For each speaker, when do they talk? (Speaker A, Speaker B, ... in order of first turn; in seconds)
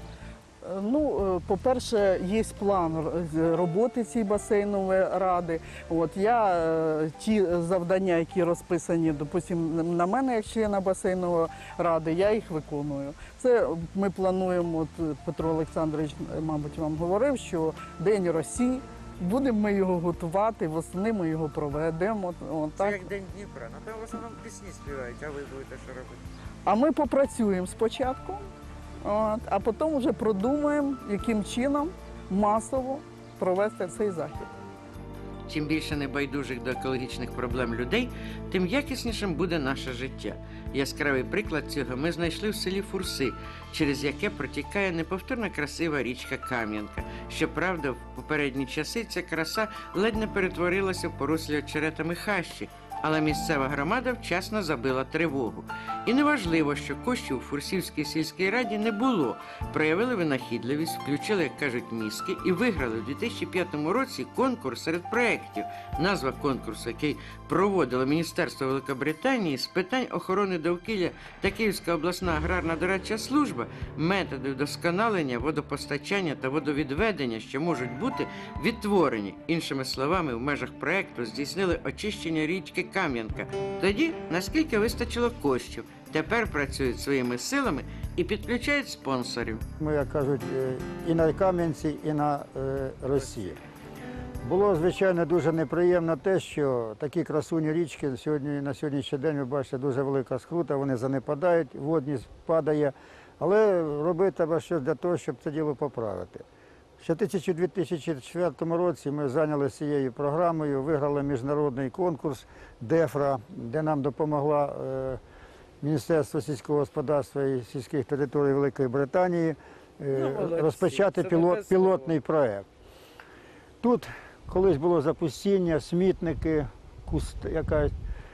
Speaker A: 0.6-23.0, 26.6-28.4, 29.0-34.5
Speaker B: 22.8-26.2, 35.5-89.6, 120.1-122.2
Speaker C: 89.8-93.6, 94.4-106.4, 107.0-115.2, 115.8-122.7, 123.8-127.9